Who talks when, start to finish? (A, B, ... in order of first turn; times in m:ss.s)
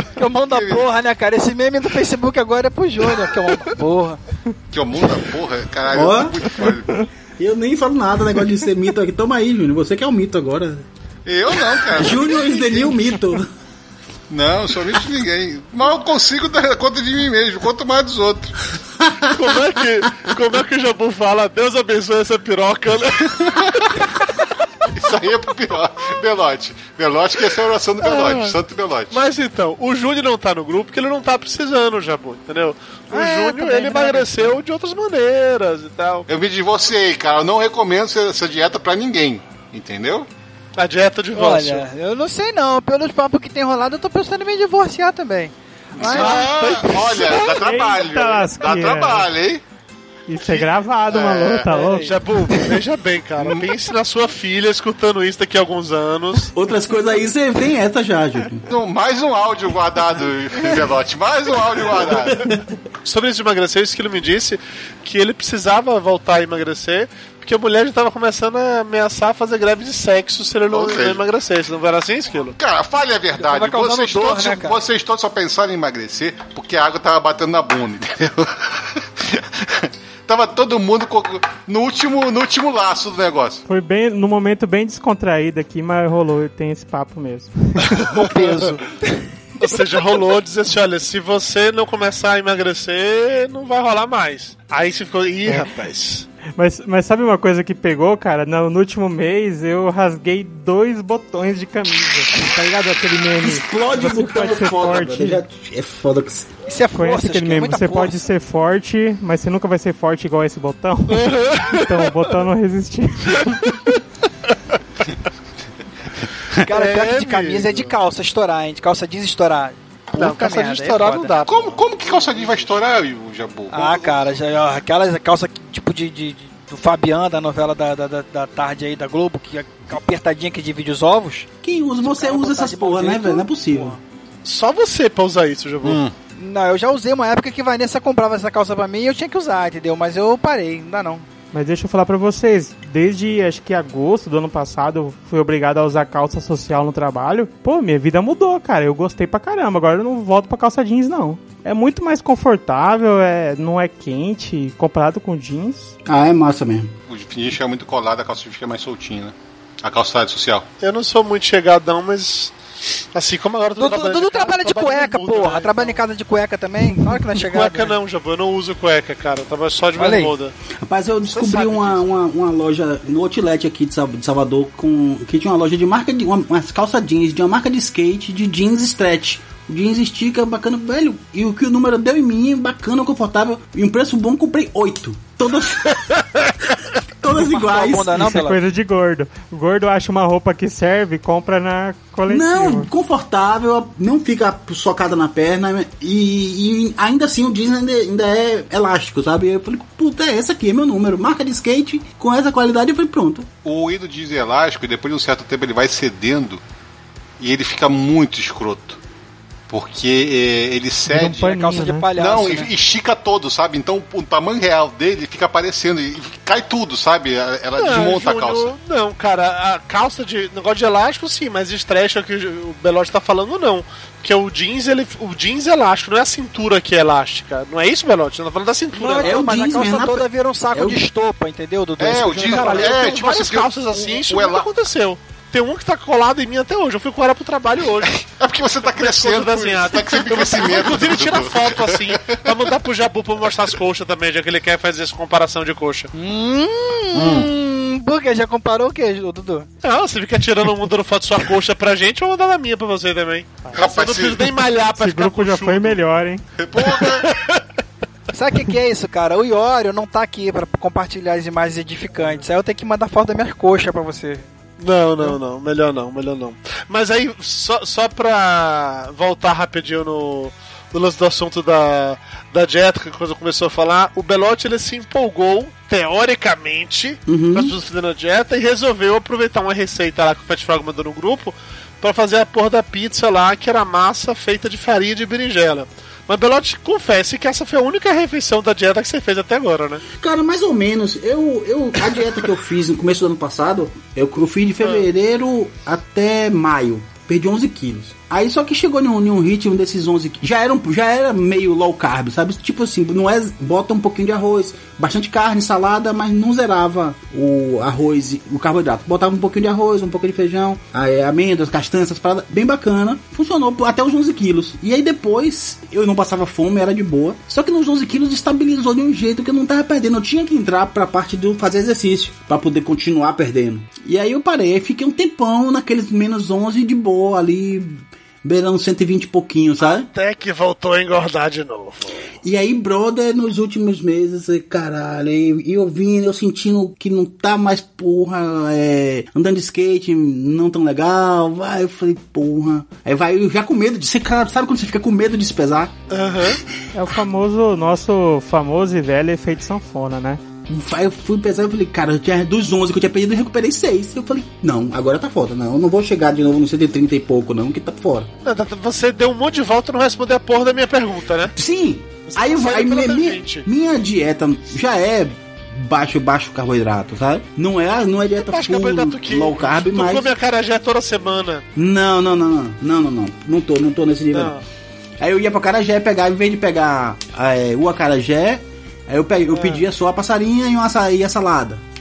0:00.2-0:04.2 A
0:00.5-0:00.9 B
0:04.7-0:07.1 B
0:05.9-0:06.4 C
0:07.4-0:10.9 C
0:11.3-0:13.0 B
0:11.9-0:13.5 C
0:14.3-0:18.6 B
0:19.3-0:23.5 D
0:23.5-0:23.8 B
0:24.9-0:29.2 B
0:28.0-0:28.6 D
0:29.1-0:36.3 D
0:33.1-0:34.6 A
0:36.3-0:40.3 B
0:40.8-0:41.9 D
0:41.3-0:46.8 A
0:46.0-0:49.6 B
0:46.0-0:47.7 D
0:47.6-0:49.3 E
0:50.3-0:52.2 E
0:50.4-0:51.7 B
0:51.7-0:52.1 A
0:51.8-0:56.5 D
0:53.4-0:53.7 B
0:56.5-0:58.6 C
0:58.7-1:02.5 B
1:03.0-1:12.6 D
1:10.7-1:11.2 B
1:12.6-1:23.6 B
1:13.4-1:14.8 A
1:23.7-1:28.4 E
1:28.0-1:28.8 D
1:28.1-1:29.1 A
1:29.6-1:36.2 D
1:36.6-1:45.4 E
1:43.4-1:46.5 C
1:46.7-1:48.2 A
1:47.0-1:53.7 E
1:51.1-1:52.0 D
1:56.6-2:01.4 A
1:56.7-1:58.0 D
2:00.2-2:02.8 D
2:01.5-2:04.2 B
2:03.7-2:11.5 A
2:11.6-2:14.0 C
2:12.0-2:14.0 A
2:14.4-2:16.0 D
2:15.8-2:16.1 B
2:16.4-2:21.2 A
2:21.5-2:35.9 E
2:36.0-2:36.9 C
2:37.1-2:40.6 B
2:40.8-2:42.6 D
2:43.1-2:46.0 D
2:43.8-2:48.0 A
2:47.3-2:50.5 D
2:50.0-2:50.4 A
2:50.8-3:06.4 C
2:51.3-2:52.0 D
3:07.2-3:08.3 C
3:07.3-3:08.6 A
3:08.2-3:12.9 E
3:12.3-3:23.5 C
3:23.6-3:26.6 B
3:27.4-3:29.0 B
3:29.7-3:31.5 B
3:31.1-3:32.1 E
3:31.2-3:32.7 A
3:32.2-3:38.7 B
3:37.8-3:49.4 D
3:49.0-3:53.0 A
3:49.2-3:51.1 C
3:52.0-3:54.7 B
3:52.1-3:58.2 D
3:58.1-4:02.6 B
3:58.8-4:06.1 D
4:06.2-4:09.7 A
4:07.1-4:07.5 B
4:09.8-4:16.0 D
4:13.8-4:14.6 B
4:15.0-4:16.4 E
4:16.6-4:17.3 B
4:16.8-4:17.6 D
4:18.3-4:24.4 A
4:24.8-4:50.0 D
4:37.3-4:37.7 C
4:50.2-5:30.1 C
5:29.8-5:32.1 D
5:32.4-5:45.9 C
5:46.1-5:46.6 D
5:46.9-5:50.4 E
5:50.7-5:58.3 C
5:58.4-6:01.5 D
6:01.6-6:10.3 C
6:02.3-6:03.7 D
6:08.4-6:11.7 D
6:11.8-6:14.6 C
6:14.3-6:14.6 D
6:15.2-6:21.8 C
6:19.5-6:19.8 D